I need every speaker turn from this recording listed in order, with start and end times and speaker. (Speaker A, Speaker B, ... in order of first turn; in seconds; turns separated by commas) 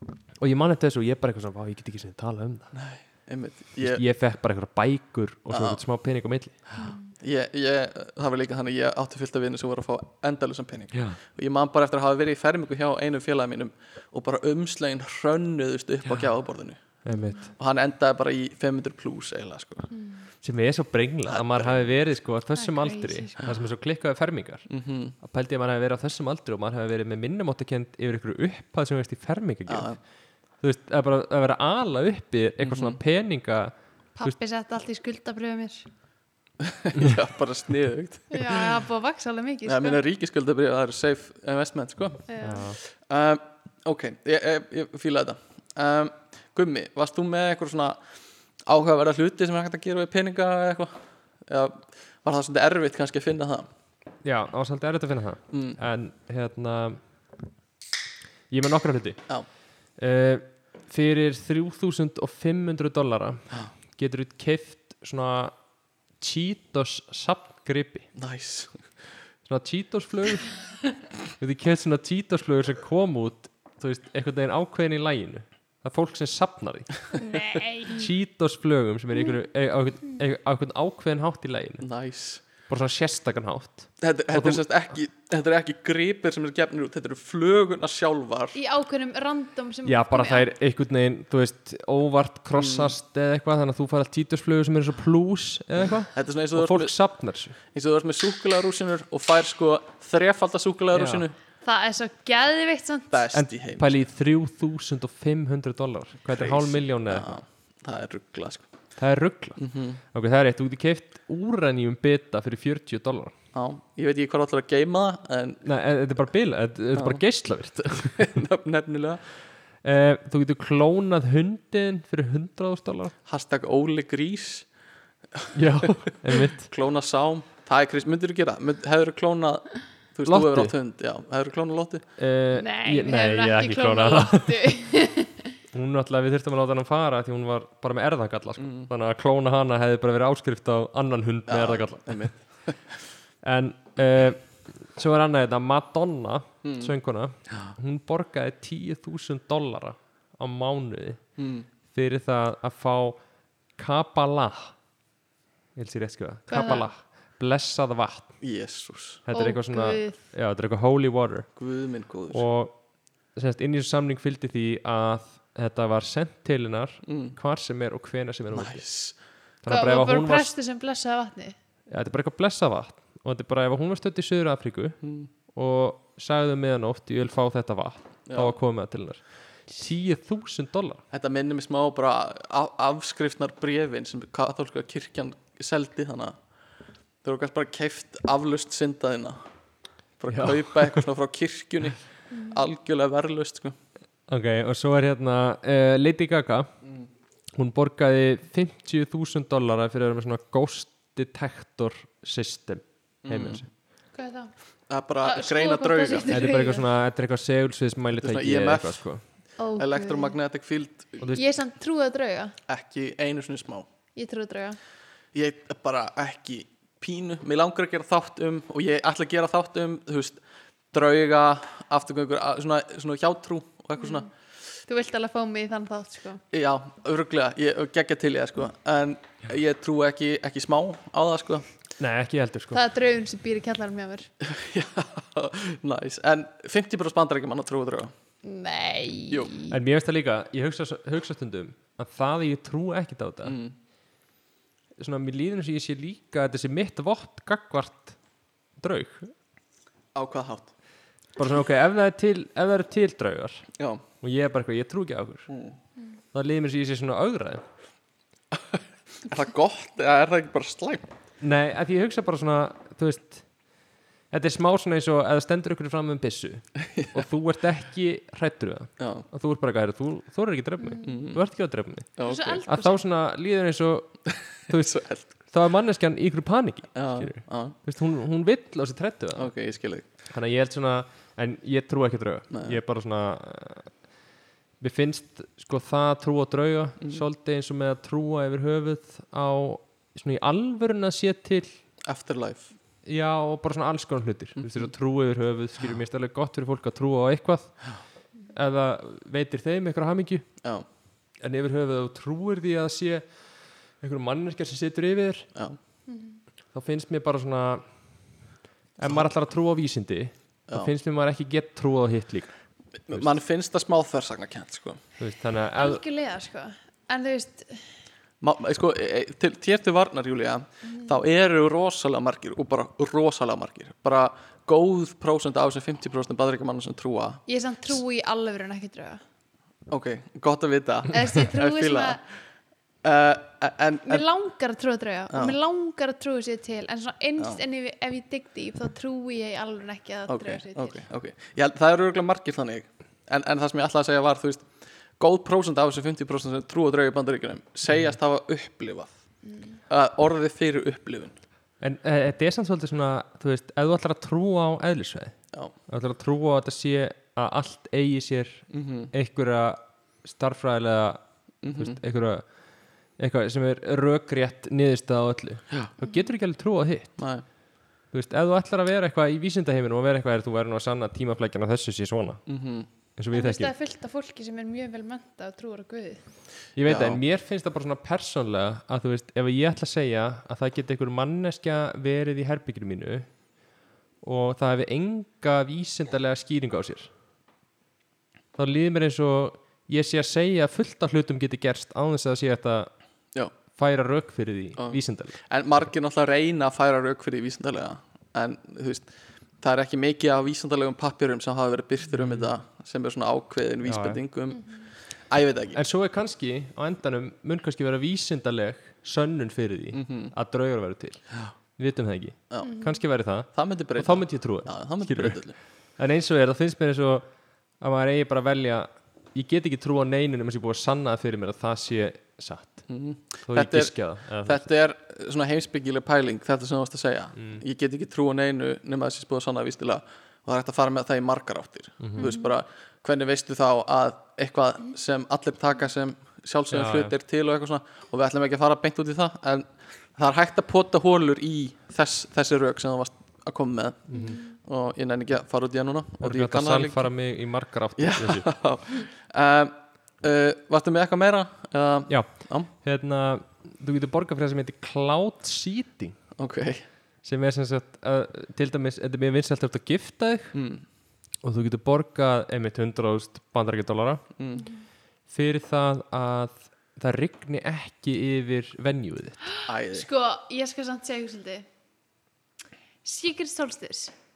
Speaker A: 0.3-2.7, Speaker B: 2.7-4.0, Speaker A: 3.8-6.6, Speaker B: 5.5-5.8, Speaker C: 6.8-7.1, Speaker B: 7.2-16.8, Speaker A: 10.9-11.2, Speaker A: 17.0-17.5, Speaker C: 17.1-17.5, Speaker B: 17.5-19.9, Speaker C: 19.9-20.2, Speaker A: 20.4-24.7, Speaker B: 21.3-21.9, Speaker C: 22.6-23.5, Speaker B: 24.7-25.1, Speaker A: 25.2-30.0, Speaker B: 29.7-30.0, Speaker A: 30.6-34.3, Speaker B: 32.6-33.0, Speaker C: 34.1-35.9, Speaker B: 36.6-38.7, Speaker C: 38.3-40.0, Speaker B: 39.6-48.0, Speaker C: 42.3-42.7, Speaker A: 42.4-42.8, Speaker B: 48.6-53.7, Speaker A: 54.2-57.0, Speaker B: 55.5-55.8, Speaker A: 58.5-59.2, Speaker A: 60.0-65.5, Speaker A: 66.2-68.1, Speaker B: 68.2-68.8, Speaker A: 69.5-70.7, Speaker A: 71.4-77.2, Speaker C: 77.2-78.1, Speaker A: 77.8-81.9, Speaker B: 81.8-82.4, Speaker A: 82.7-84.6, Speaker B: 84.0-88.6, Speaker C: 88.5-90.5, Speaker A: 89.8-97.5, Speaker B: 92.5-92.9, Speaker B: 96.1-96.9, Speaker B: 97.7-101.3, Speaker A: 100.9-101.2, Speaker C: 101.6-103.2, Speaker B: 103.1-104.0, Speaker A: 103.3-107.4, Speaker B: 106.3-108.7, Speaker A: 109.0-113.3, Speaker B: 109.6-110.0, Speaker B: 113.5-115.6, Speaker A: 115.6-118.3, Speaker B: 116.9-117.2, Speaker B: 118.2-119.2, Speaker A: 119.8-123.1, Speaker B: 123.2-124.7, Speaker B: 125.3-132.0, Speaker A: 125.5-126.7, Speaker A: 130.2-130.7, Speaker A: 132.2-134.8, Speaker C: 132.5-135.5, Speaker A: 135.7-142.5, Speaker B: 138.6-138.9, Speaker B: 141.5-142.8, Speaker A: 143.4-151.2, Speaker B: 146.6-146.9, Speaker B: 151.4-151.7, Speaker A: 151.9-153.2, Speaker A: 153.8-154.7, Speaker A: 155.7-158.3, Speaker C: 156.5-156.9, Speaker B: 158.4-159.2, Speaker A: 159.3-161.5, Speaker C: 159.3-160.2, Speaker B: 161.6-162.4, Speaker A: 162.3-162.8, Speaker A: 163.3-168.8, Speaker B: 167.1-167.3, Speaker B: 168.5-169.1, Speaker A: 169.6-170.5, Speaker C: 169.7-171.5, Speaker A: 171.9-175.0, Speaker B: 175.0-175.3, Speaker A: 175.5-181.0, Speaker B: 178.3-178.6, Speaker B: 181.1-186.4, Speaker B: 187.2-189.4, Speaker B: 190.2-193.7, Speaker A: 190.3-191.0, Speaker C: 192.3-192.6, Speaker A: 194.3-196.7, Speaker A: 197.5-203.7, Speaker B: 203.2-203.6, Speaker C: 204.1-204.5, Speaker B: 204.9-206.3, Speaker C: 205.2-206.8, Speaker A: 206.3-209.2, Speaker B: 208.2-209.0, Speaker C: 209.6-210.3, Speaker B: 209.8-211.2, Speaker A: 211.2-211.4, Speaker C: 211.3-212.5, Speaker B: 212.7-213.9, Speaker C: 214.2-214.8, Speaker B: 215.3-220.4, Speaker B: 220.9-224.3, Speaker C: 224.0-224.2, Speaker C: 224.9-226.4, Speaker B: 226.5-231.6, Speaker A: 232.0-232.8, Speaker C: 232.7-234.3, Speaker B: 234.4-238.1, Speaker C: 238.4-239.8, Speaker A: 239.7-243.6, Speaker B: 243.4-243.7, Speaker A: 245.0-248.2, Speaker A: 248.8-249.3, Speaker B: 250.1-250.7, Speaker A: 251.3-255.5, Speaker B: 253.8-254.0, Speaker B: 255.5-255.8, Speaker A: 256.3-257.6, Speaker B: 258.5-261.1, Speaker A: 261.4-263.4, Speaker A: 264.3-279.5, Speaker B: 269.0-269.2, Speaker C: 270.8-271.2, Speaker B: 271.0-271.4, Speaker B: 272.2-272.6, Speaker C: 272.2-273.0, Speaker B: 274.7-275.3, Speaker B: 276.9-277.7, Speaker B: 279.3-280.1, Speaker A: 280.3-283.9, Speaker B: 282.5-282.8, Speaker A: 284.8-291.7, Speaker B: 292.0-292.7, Speaker A: 293.1-298.0, Speaker B: 294.6-294.9, Speaker A: 298.5-300.5, Speaker A: 301.4-303.4, Speaker A: 304.0-305.5, Speaker C: 306.1-306.4, Speaker A: 306.7-307.8, Speaker A: 309.0-312.6, Speaker B: 313.1-315.0, Speaker A: 315.2-316.0, Speaker C: 315.8-317.8, Speaker B: 318.4-327.4, Speaker C: 327.5-329.2, Speaker B: 329.9-332.2, Speaker C: 331.1-332.2, Speaker B: 333.0-334.2, Speaker C: 334.1-341.0, Speaker B: 340.3-349.1, Speaker C: 349.4-349.8, Speaker B: 349.9-351.4, Speaker A: 351.8-355.4, Speaker A: 355.9-361.2, Speaker B: 358.7-359.1, Speaker B: 361.6-362.0, Speaker A: 361.7-362.4, Speaker A: 363.2-367.2, Speaker C: 366.0-366.3, Speaker B: 367.2-367.4, Speaker A: 368.1-372.4, Speaker B: 372.5-372.9, Speaker A: 373.2-373.7, Speaker C: 373.3-376.2, Speaker A: 376.8-383.3, Speaker B: 376.9-377.2, Speaker A: 384.2-387.1, Speaker A: 388.6-392.9, Speaker A: 393.7-395.4, Speaker B: 394.8-399.1, Speaker B: 399.6-405.8, Speaker A: 402.1-402.5, Speaker A: 403.8-404.2, Speaker A: 405.7-417.2, Speaker B: 409.9-410.3, Speaker C: 412.6-413.0, Speaker B: 413.5-415.6, Speaker A: 417.8-422.9, Speaker B: 422.9-447.1, Speaker A: 423.4-424.6, Speaker A: 427.4-427.6, Speaker A: 432.0-432.3, Speaker C: 432.2-432.5, Speaker A: 436.7-437.1, Speaker A: 444.1-444.4, Speaker C: 444.1-444.5, Speaker A: 446.2-448.5, Speaker B: 448.0-452.7, Speaker A: 452.1-456.2, Speaker B: 456.4-456.8, Speaker A: 457.2-460.6, Speaker B: 460.5-460.8, Speaker A: 461.4-464.2, Speaker B: 464.4-464.6, Speaker A: 465.3-469.4, Speaker C: 469.6-471.6, Speaker B: 469.7-470.1, Speaker C: 473.0-474.1